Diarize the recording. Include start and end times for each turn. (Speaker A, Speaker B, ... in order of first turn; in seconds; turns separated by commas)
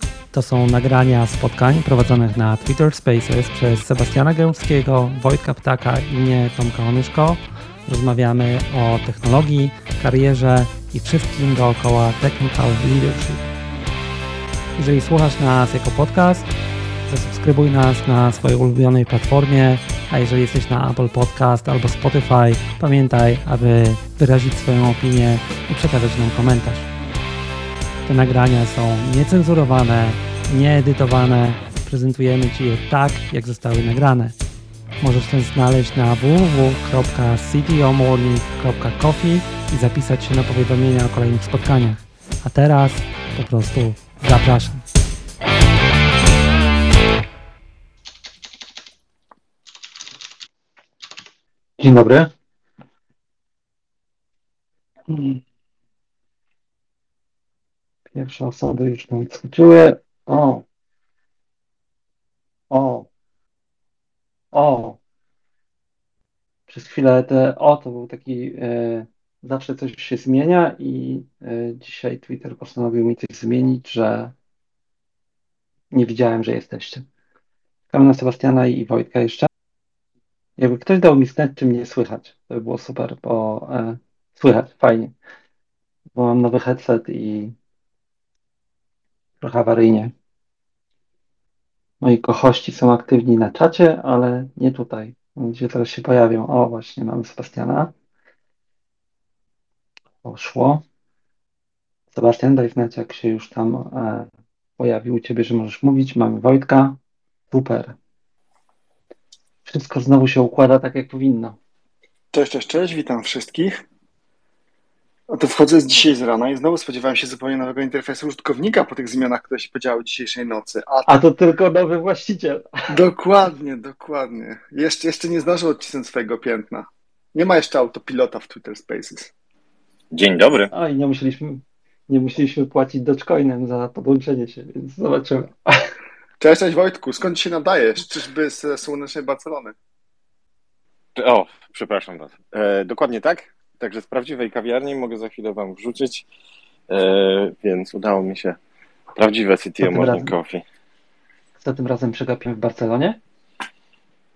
Speaker A: 0.3-13.4, Speaker A: 14.8-16.5, Speaker A: 17.1-26.9, Speaker A: 28.1-34.4, Speaker A: 35.0-44.8, Speaker A: 51.8-52.3, Speaker A: 55.1-55.4, Speaker A: 58.1-60.6, Speaker A: 62.7-63.1, Speaker A: 64.5-65.0, Speaker A: 66.7-74.3, Speaker A: 75.9-77.0, Speaker A: 77.9-79.5, Speaker A: 80.6-85.1, Speaker A: 86.1-87.5, Speaker A: 89.4-90.1, Speaker A: 92.0-97.9, Speaker A: 100.2-100.8, Speaker A: 102.1-104.3, Speaker A: 104.8-107.0, Speaker A: 107.5-108.0, Speaker A: 109.7-111.6, Speaker B: 112.3-113.8, Speaker B: 115.3-121.1, Speaker A: 121.1-122.9, Speaker B: 122.9-129.3, Speaker C: 130.1-130.7, Speaker A: 130.7-135.9, Speaker B: 136.4-139.8, Speaker C: 141.1-146.3, Speaker C: 146.9-148.6, Speaker C: 149.2-150.6, Speaker A: 149.8-150.3, Speaker A: 151.6-153.2